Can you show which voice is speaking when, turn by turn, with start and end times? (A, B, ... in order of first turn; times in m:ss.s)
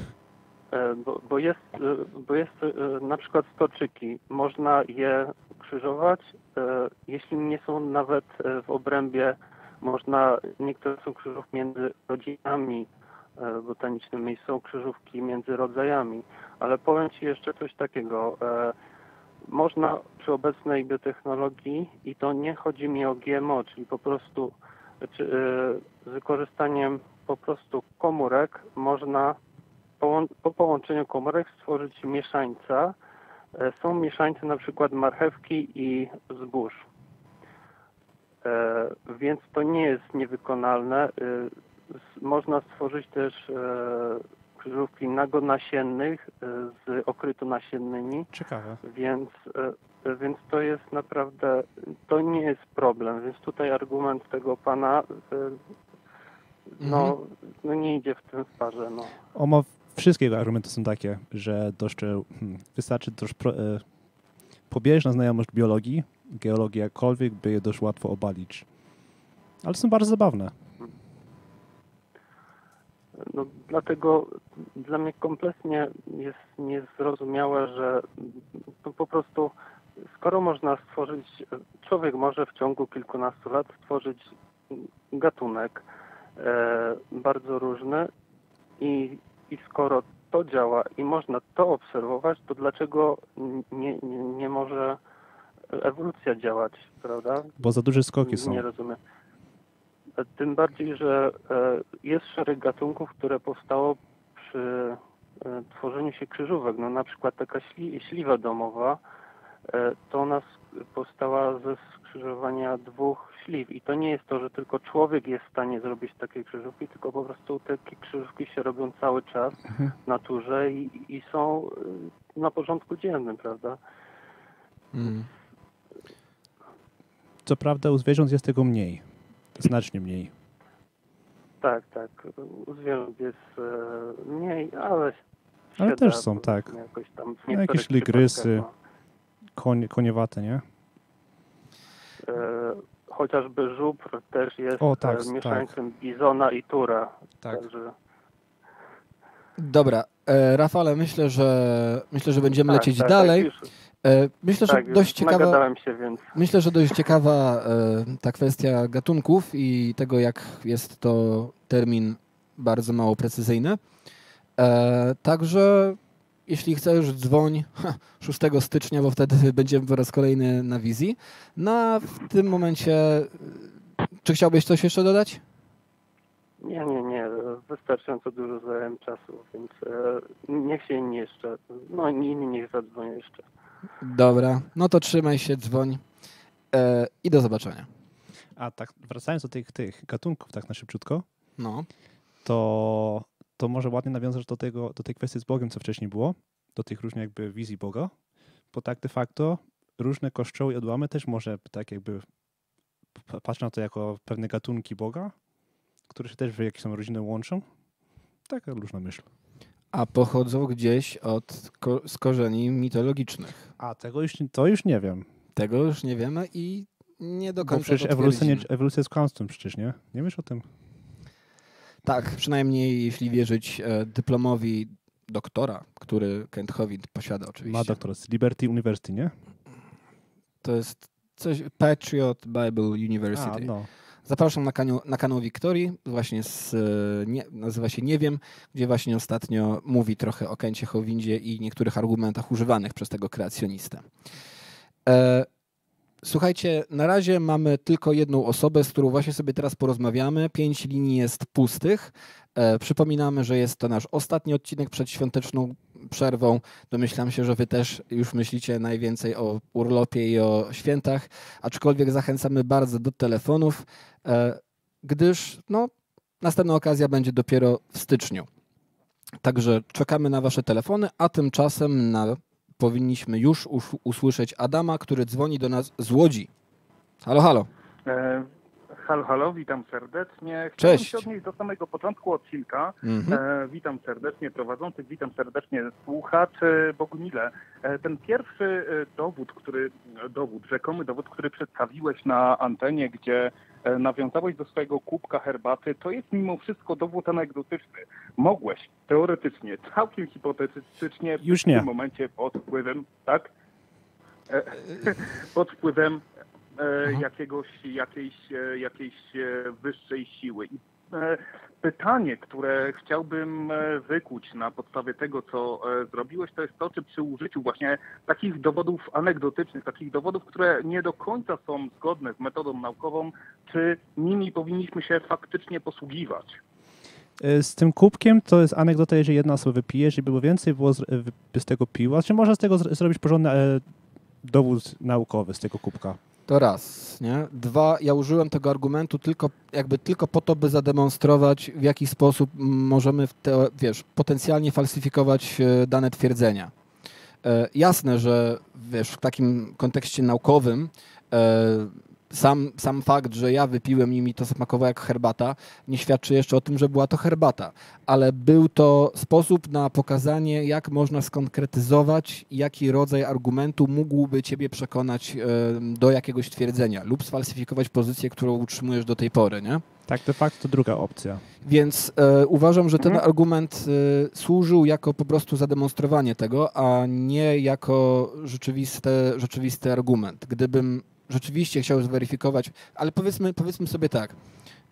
0:00.7-0:18.8 A
0:19.5-0:29.4 A
0:30.0-0:33.0 A
0:33.6-0:36.9 A
0:38.4-0:48.3 A
0:48.3-0:48.8 B
0:48.8-0:55.6 A
0:56.8-0:59.2 A
0:56.8-0:57.2 C
0:59.4-1:03.8 B
1:04.7-1:08.7 B
1:09.6-1:10.5 B
1:13.2-1:19.5 A
1:20.1-1:25.8 A
1:26.4-1:28.1 A
1:28.8-1:35.0 A
1:35.7-1:37.6 A
1:37.6-1:38.6 B
1:38.2-1:39.0 A
1:40.2-1:49.0 A
1:49.7-2:03.8 A
2:04.9-2:05.3 C
2:07.4-2:10.3 B
2:11.6-2:15.2 A
2:15.8-2:18.7 A
2:15.8-2:16.7 B
2:17.5-2:18.6 B
2:19.6-2:20.6 B
2:22.3-2:27.9 A
2:24.8-2:25.7 B
2:29.6-2:33.5 C
2:32.7-2:33.7 A
2:34.0-2:35.6 C
2:34.7-2:36.4 A
2:36.3-2:43.8 C
2:44.6-2:55.4 C
2:56.6-3:03.5 A
3:04.0-3:06.0 C
3:06.7-3:07.9 C
3:08.6-3:11.2 B
3:11.6-3:11.9 C
3:12.4-3:18.1 B
3:18.7-3:22.2 B
3:23.3-3:25.3 B
3:26.1-3:27.6 B
3:28.5-3:29.2 B
3:29.9-3:33.7 C
3:33.8-3:35.2 B
3:35.6-3:38.7 C
3:37.6-3:40.6 B
3:42.0-3:48.0 C
3:47.7-3:49.3 B
3:50.6-3:53.7 C
3:53.3-3:53.9 B
3:54.3-4:04.1 C
4:05.1-4:05.5 C
4:06.2-4:28.5 C
4:29.4-4:36.5 C
4:37.2-4:37.7 C
4:38.1-5:03.5 D
4:40.8-4:41.3 C
4:43.0-4:43.4 C
5:01.4-5:01.9 B
5:04.5-5:06.2 D
5:06.8-5:26.6 D
5:27.4-5:33.8 B
5:34.4-5:36.2 B
5:36.5-5:46.7 C
5:47.4-6:09.8 C
6:10.1-6:11.4 B
6:11.6-6:24.4 C